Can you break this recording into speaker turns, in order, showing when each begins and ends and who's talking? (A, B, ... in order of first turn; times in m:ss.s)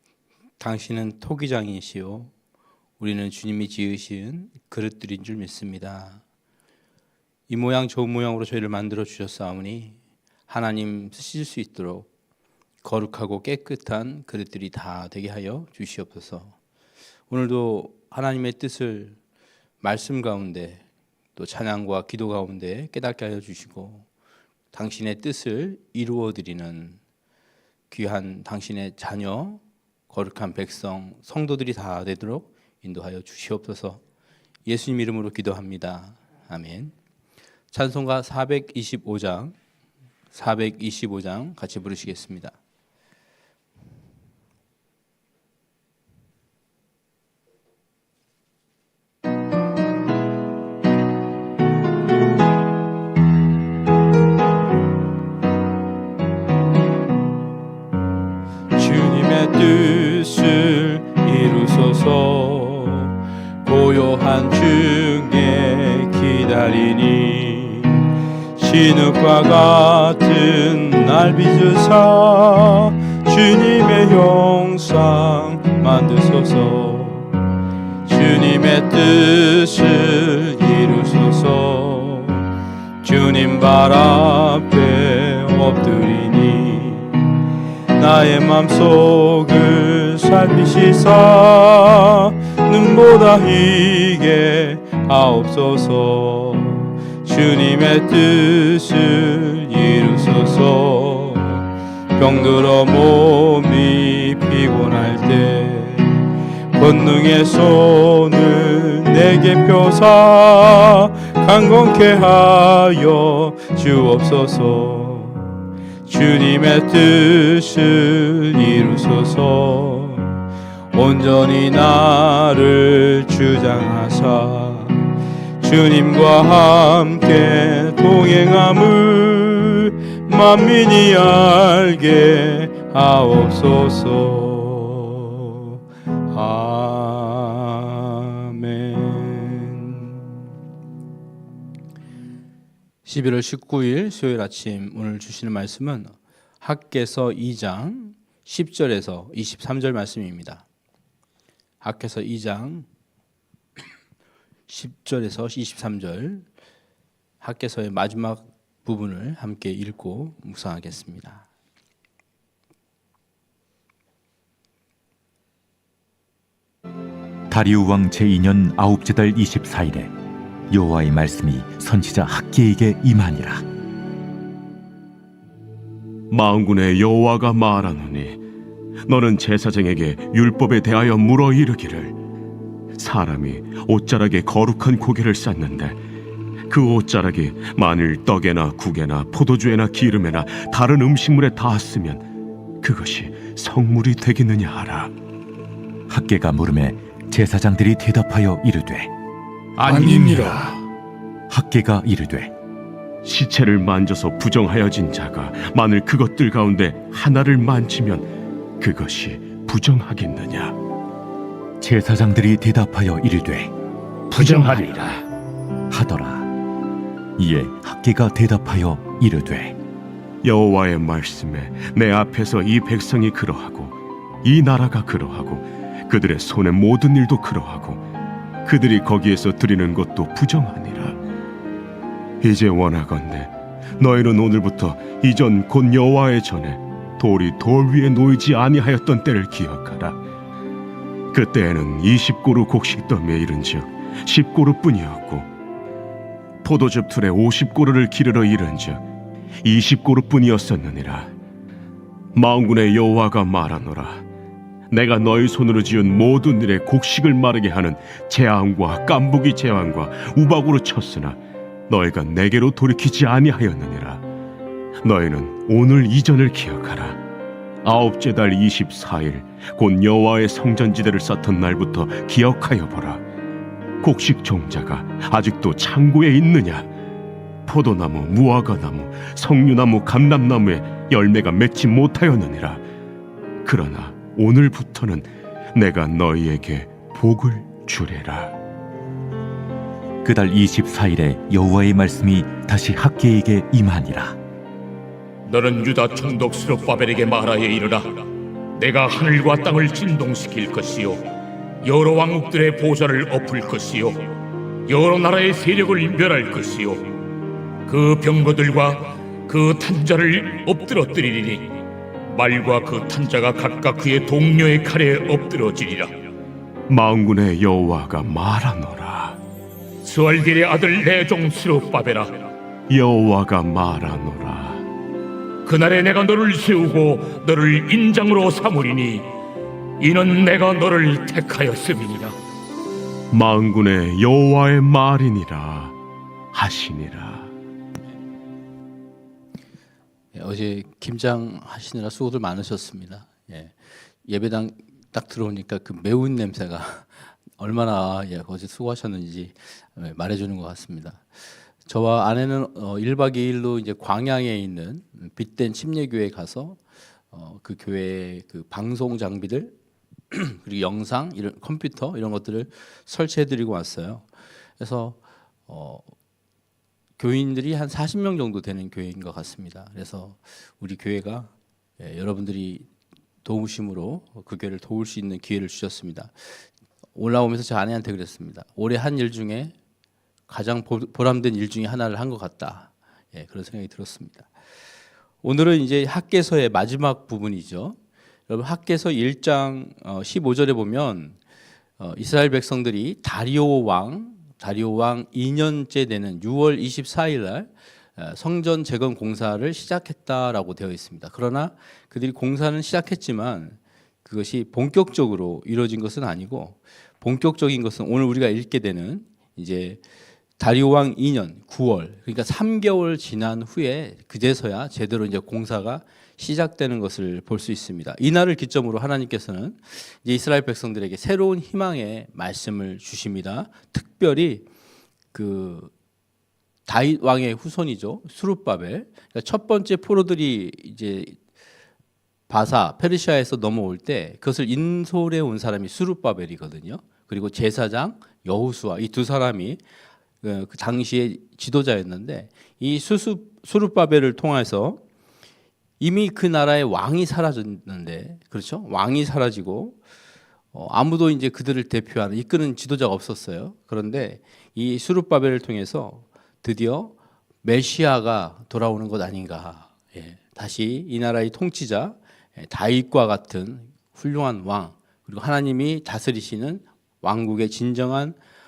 0:00.6-0:02.3 A
0:03.0-0:06.2 A
0:07.5-0:10.0 A
0:10.5-0:12.1 A
0:12.8-0:16.6 A
0:17.3-0:19.2 A
0:19.8-0:20.8 A
0:21.4-0:24.0 A
0:24.7-0:27.0 A
0:27.9-0:34.0 A
0:34.7-0:36.9 A
0:37.7-0:39.6 A
0:40.3-0:42.6 A
0:58.8-1:03.1 A
1:03.6-1:08.0 A
1:08.6-1:17.3 A
1:18.1-1:22.5 A
1:23.0-1:27.2 A
1:28.0-1:41.6 A
1:42.2-1:46.2 A
1:46.7-1:55.5 A
1:56.1-2:00.4 A
2:00.9-2:05.0 A
2:05.6-2:15.8 A
2:16.3-2:20.2 A
2:23.0-2:30.6 A
2:31.8-2:32.9 A
2:34.7-2:36.4 A
2:37.4-2:41.5 A
2:47.5-2:50.1 B
2:50.7-2:53.7 B
2:56.3-2:58.4 C
2:59.0-3:02.2 C
3:03.0-3:06.0 C
3:06.7-3:12.2 C
3:12.8-3:15.1 C
3:16.1-3:19.1 B
3:19.8-3:20.8 D
3:21.5-3:22.5 B
3:23.2-3:28.3 C
3:28.8-3:30.8 C
3:31.8-3:33.7 B
3:34.3-3:35.2 B
3:35.9-3:36.5 B
3:37.4-3:39.8 B
3:40.4-3:48.0 C
3:48.6-3:51.2 C
3:52.4-4:00.2 C
4:01.3-4:05.5 C
4:06.6-4:09.0 C
4:09.6-4:11.3 C
4:12.4-4:14.2 C
4:14.9-4:21.4 C
4:21.9-4:24.2 C
4:25.0-4:27.2 C
4:27.8-4:33.2 C
4:34.0-4:36.9 C
4:37.7-4:42.8 C
4:43.6-4:48.5 C
4:50.2-4:54.4 B
4:55.5-4:58.2 D
4:58.8-5:01.2 D
5:01.8-5:04.3 D
5:04.9-5:07.1 D
5:07.9-5:11.7 D
5:12.3-5:16.1 D
5:16.9-5:19.4 C
5:20.0-5:22.5 D
5:22.9-5:24.8 C
5:25.6-5:29.3 D
5:30.0-5:32.4 D
5:33.3-5:36.0 C
5:36.5-5:37.5 C
5:40.3-5:43.7 A
5:44.3-5:51.2 A
5:51.8-5:56.8 A
5:57.3-5:59.7 A
6:00.3-6:04.3 A
6:04.8-6:06.1 A
6:07.2-6:12.9 A
6:13.4-6:16.6 A
6:17.2-6:19.7 A
6:20.5-6:24.5 A
6:25.4-6:28.0 A
6:28.5-6:31.4 A
6:32.0-6:50.0 A
6:50.6-7:04.6 A
7:05.3-7:05.9 A
7:06.9-7:11.4 A
7:12.5-7:19.8 A
7:20.4-7:25.0 A
7:26.0-7:30.0 A
7:30.7-7:48.4 A